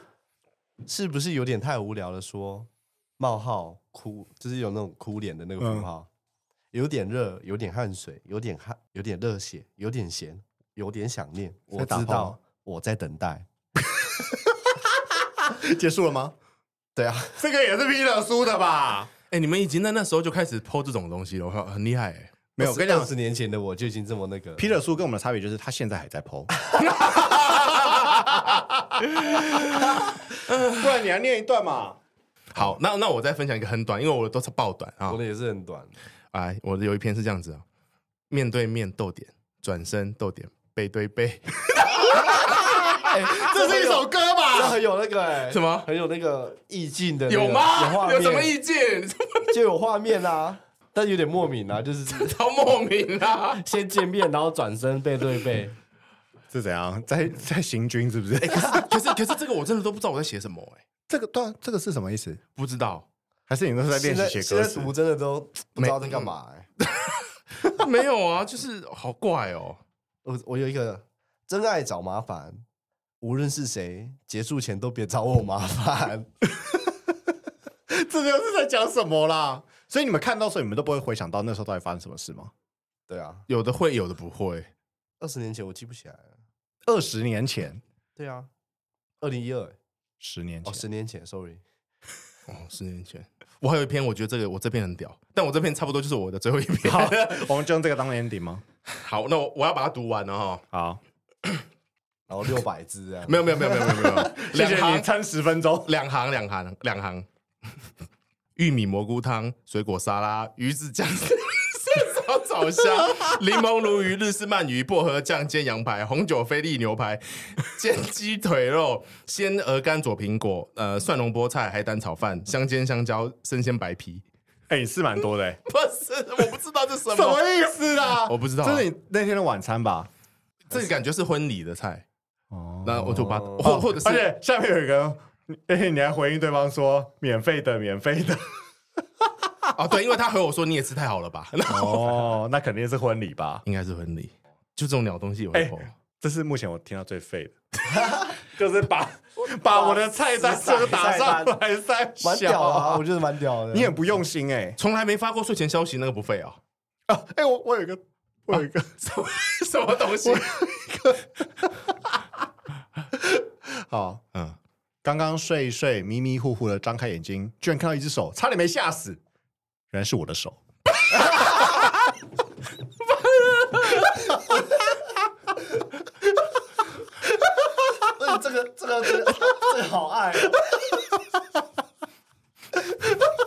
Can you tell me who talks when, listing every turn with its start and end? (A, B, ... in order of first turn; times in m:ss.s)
0:00.9-0:06.1 A
0:05.6-0:05.9 B
0:06.7-0:13.5 A
0:11.8-0:12.4 B
0:13.9-0:14.8 B
0:15.4-0:16.4 B
0:17.0-0:17.4 A
0:17.4-0:19.1 B
0:19.3-0:22.3 C
0:22.6-0:23.1 B
0:22.6-0:24.8 A
0:24.6-0:32.0 B
0:26.8-0:28.4 C
0:29.2-0:31.1 C
0:32.5-0:35.2 C
0:35.1-0:35.9 A
0:36.3-0:37.6 C
0:38.3-0:43.1 C
0:42.3-0:44.8 B
0:43.0-0:48.5 A
0:45.5-0:45.9 C
0:47.3-0:49.6 C
0:49.5-0:52.4 A
0:52.1-0:53.6 C
0:53.5-0:55.8 A
0:56.5-0:58.9 B
0:58.4-1:00.8 C
1:01.1-1:02.4 B
1:02.6-1:03.1 C
1:03.5-1:05.0 B
1:03.9-1:06.7 A
1:05.8-1:09.8 C
1:10.2-1:12.6 A
1:13.2-1:16.3 A
1:17.9-1:22.5 B
1:23.1-1:23.5 A
1:23.5-1:24.7 C
1:25.2-1:26.4 A
1:26.9-1:27.8 B
1:28.2-1:28.5 A
1:29.2-1:29.8 A
1:30.2-1:30.8 B
1:30.6-1:31.6 A
1:32.5-1:37.5 C
1:36.8-1:38.6 B
1:38.9-1:40.6 C
1:40.7-1:41.0 B
1:42.3-1:43.9 A
1:43.3-1:45.1 C
1:43.8-1:45.9 B
1:45.9-1:47.3 C
1:48.6-2:04.2 C
2:04.7-2:05.6 B
2:05.7-2:07.4 C
2:07.1-2:10.1 B
2:08.1-2:08.9 C
2:10.7-2:12.0 C
2:12.5-2:18.6 B
2:12.8-2:14.2 C
2:13.1-2:13.7 A
2:19.8-2:22.4 C
2:21.7-2:23.6 B
2:23.6-2:25.9 C
2:25.5-2:33.0 B
2:27.9-2:28.3 A
2:29.7-2:31.6 A
2:32.2-2:34.0 A
2:33.7-2:34.8 B
2:34.8-2:36.6 C
2:37.1-2:39.0 B
2:38.6-2:40.6 C
2:40.2-2:41.9 B
2:43.1-2:44.2 B
2:45.0-2:49.2 B
2:49.9-2:50.6 B
2:51.3-2:51.8 B
2:53.6-2:54.1 C
2:58.1-3:00.8 A